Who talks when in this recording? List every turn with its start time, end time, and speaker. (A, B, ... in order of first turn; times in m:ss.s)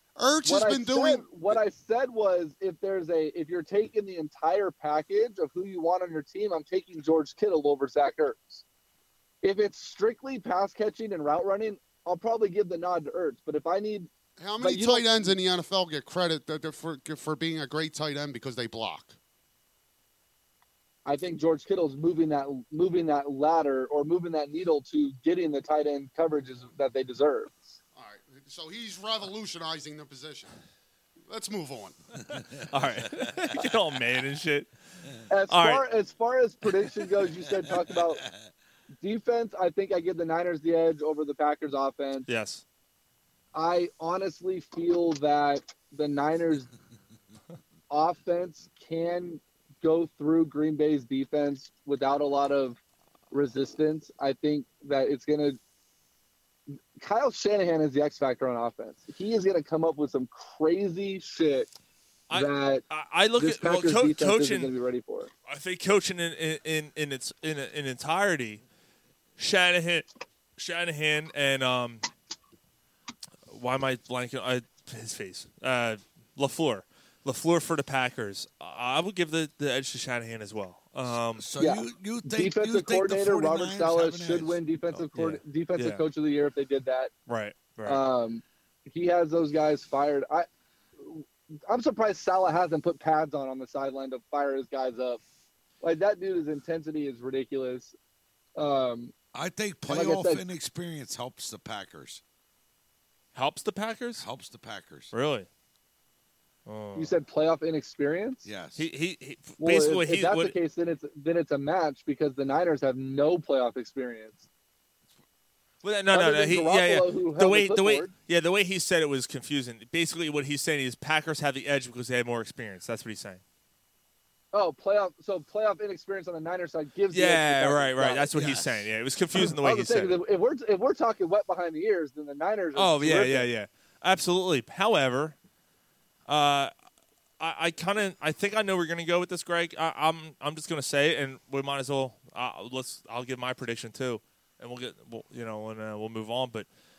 0:00.2-0:01.6 A
0:00.4-0:08.6 B
0:09.4-0:15.3 B
0:14.4-0:19.2 A
0:21.0-0:27.8 B
0:27.9-0:30.5 A
0:31.3-0:32.0 A
0:32.3-0:34.7 C
0:35.3-0:38.2 B
0:35.5-0:35.9 C
0:38.0-0:38.3 D
0:39.0-0:42.3 B
0:42.2-0:42.6 C
0:43.5-0:46.7 B
0:47.9-0:52.8 B
0:53.3-0:55.6 B
0:57.0-1:01.7 B
1:02.3-1:04.7 C
1:02.3-1:02.8 B
1:03.4-1:05.3 B
1:05.4-1:08.6 C
1:09.4-1:12.0 C
1:13.5-1:21.4 C
1:21.4-1:24.6 D
1:21.6-1:27.1 B
1:24.9-1:26.0 C
1:27.3-1:28.0 C
1:27.8-1:30.5 B
1:31.0-1:35.2 B
1:35.8-1:37.9 B
1:38.6-1:39.1 B
1:39.3-1:42.2 D
1:39.9-1:40.4 B
1:43.3-1:44.2 C
1:44.2-1:45.1 D
1:45.1-1:45.5 C
1:46.6-1:47.1 C
1:46.9-1:48.5 B
1:48.4-1:48.9 D
1:48.7-1:50.6 C
1:49.6-1:54.4 B
1:55.8-2:03.4 C
1:56.1-1:58.1 B
2:04.5-2:08.3 B
2:07.1-2:10.2 C
2:08.3-2:08.9 D
2:09.4-2:13.5 B
2:12.8-2:15.4 C
2:16.3-2:16.7 C
2:17.4-2:26.7 C